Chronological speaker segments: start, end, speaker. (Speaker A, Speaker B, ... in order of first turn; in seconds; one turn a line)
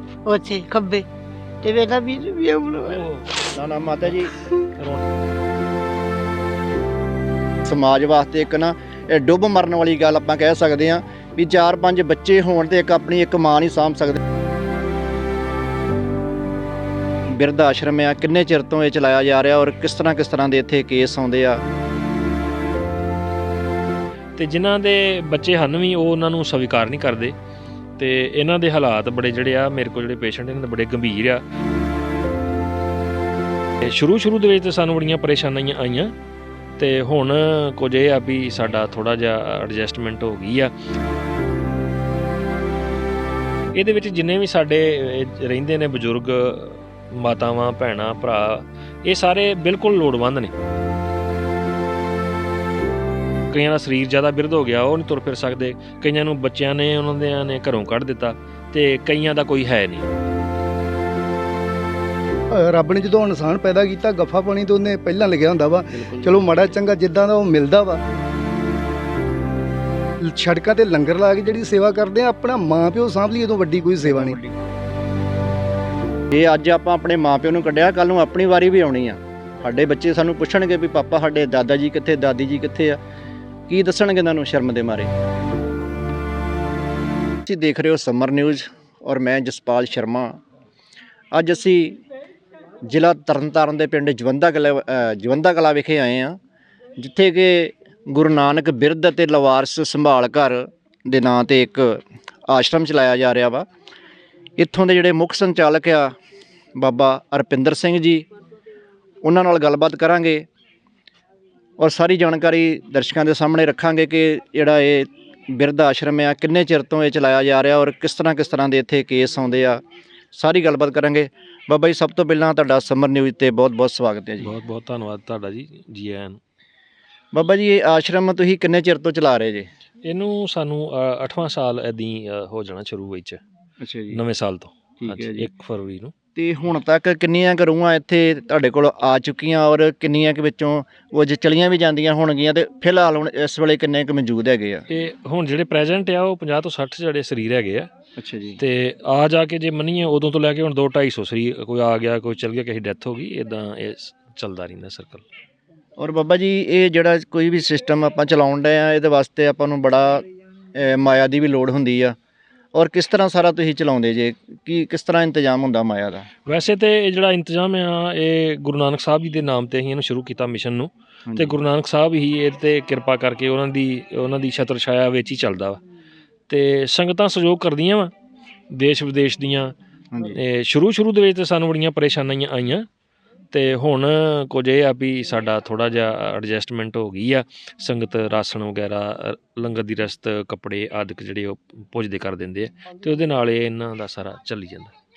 Speaker A: 0.2-1.0
Speaker A: 1.6-3.0
Speaker B: 2.8-3.3
Speaker C: 3.5-4.3
Speaker B: 4.8-5.0
Speaker C: 7.7-14.2
Speaker C: 17.3-21.6
Speaker B: 24.4-27.3
Speaker B: 28.0-31.4
Speaker B: 33.8-36.1
Speaker B: 36.8-40.7
Speaker B: 43.7-50.5
Speaker B: 53.5-60.1
Speaker D: 62.5-68.0
Speaker C: 65.9-66.7
Speaker D: 70.2-74.4
Speaker C: 74.0-74.5
Speaker C: 76.3-83.0
Speaker C: 83.7-85.1
Speaker C: 87.4-90.4
Speaker C: 91.3-92.0
Speaker C: 92.8-96.4
Speaker C: 97.0-103.7
Speaker C: 104.6-106.1
Speaker C: 106.8-108.2
Speaker C: 109.2-110.5
Speaker C: 111.8-119.8
Speaker C: 120.3-124.5
Speaker B: 124.4-126.4
Speaker C: 127.3-129.7
Speaker B: 130.0-133.4
Speaker C: 133.8-134.2
Speaker B: 134.1-136.1
Speaker C: 135.0-135.5
Speaker C: 136.3-144.8
Speaker B: 144.9-147.9
Speaker C: 148.2-148.6
Speaker B: 148.6-155.2
Speaker C: 156.0-162.1
Speaker C: 162.7-166.3
Speaker B: 166.4-175.8
Speaker C: 171.2-171.6
Speaker B: 176.5-178.1
Speaker B: 178.7-179.7
Speaker C: 180.1-180.4
Speaker B: 180.3-182.9
Speaker B: 183.5-194.9